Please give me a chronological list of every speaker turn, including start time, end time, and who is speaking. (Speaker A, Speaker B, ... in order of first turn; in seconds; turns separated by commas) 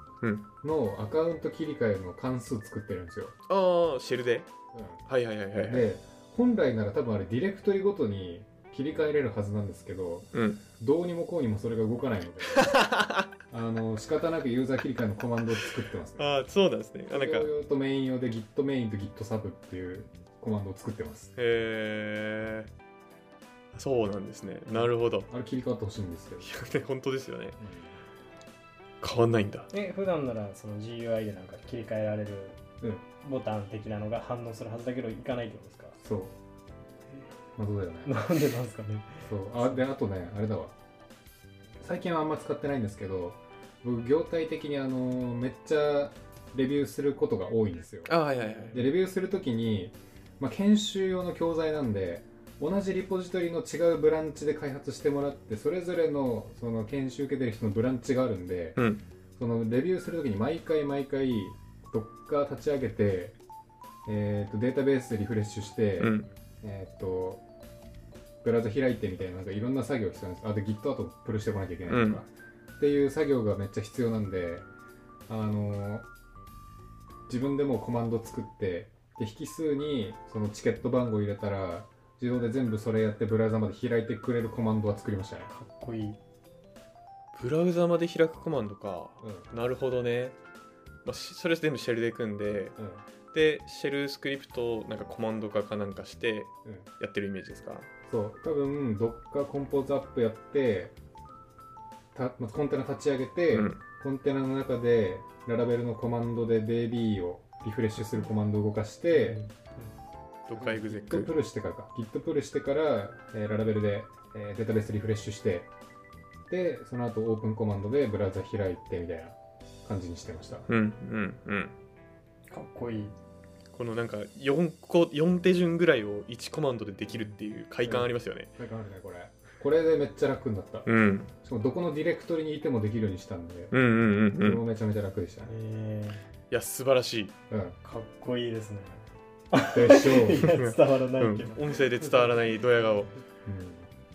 Speaker A: 0.6-3.3, Speaker B: 3.5-4.5, Speaker A: 4.7-5.0, Speaker B: 5.0-5.9, Speaker A: 5.6-12.7, Speaker B: 10.3-10.6, Speaker B: 12.5-13.3, Speaker A: 13.5-16.3, Speaker B: 16.2-17.5, Speaker A: 17.1-21.3, Speaker B: 21.4-22.7, Speaker B: 23.7-25.3, Speaker A: 24.7-26.5, Speaker B: 26.4-27.6, Speaker A: 27.6-28.0, Speaker B: 29.0-29.7, Speaker C: 29.7-32.6, Speaker C: 33.2-36.0, Speaker A: 36.0-36.4, Speaker A: 37.6-38.1, Speaker C: 38.0-39.7, Speaker A: 39.2-40.7, Speaker A: 41.8-48.1, Speaker B: 48.1-48.8, Speaker C: 48.4-48.9, Speaker A: 48.7-58.8, Speaker B: 58.8-59.0, Speaker A: 59.4-63.4, Speaker A: 64.0-67.4, Speaker B: 66.0-66.3, Speaker A: 68.4-74.7, Speaker B: 71.9-72.2, Speaker A: 75.3-76.1, Speaker A: 77.3-85.5, Speaker C: 85.5-86.2, Speaker B: 87.3-90.4, Speaker A: 89.2-89.5, Speaker B: 91.0-92.8, Speaker A: 92.8-93.0, Speaker B: 93.3-97.9, Speaker A: 98.1-100.9, Speaker A: 102.1-109.4, Speaker B: 103.5-103.8, Speaker C: 109.1-109.9, Speaker B: 110.5-111.3, Speaker A: 110.5-115.7, Speaker A: 116.5-120.7, Speaker B: 120.7-121.7, Speaker C: 122.5-123.2, Speaker B: 123.7-128.5, Speaker A: 127.8-130.9, Speaker B: 130.8-131.3, Speaker A: 131.4-133.8, Speaker B: 133.7-134.6, Speaker A: 134.3-135.6, Speaker C: 135.5-136.2, Speaker B: 136.5-137.3, Speaker A: 137.5-137.8, Speaker C: 137.8-143.2, Speaker A: 139.7-140.5, Speaker B: 140.4-143.1, Speaker A: 143.4-143.9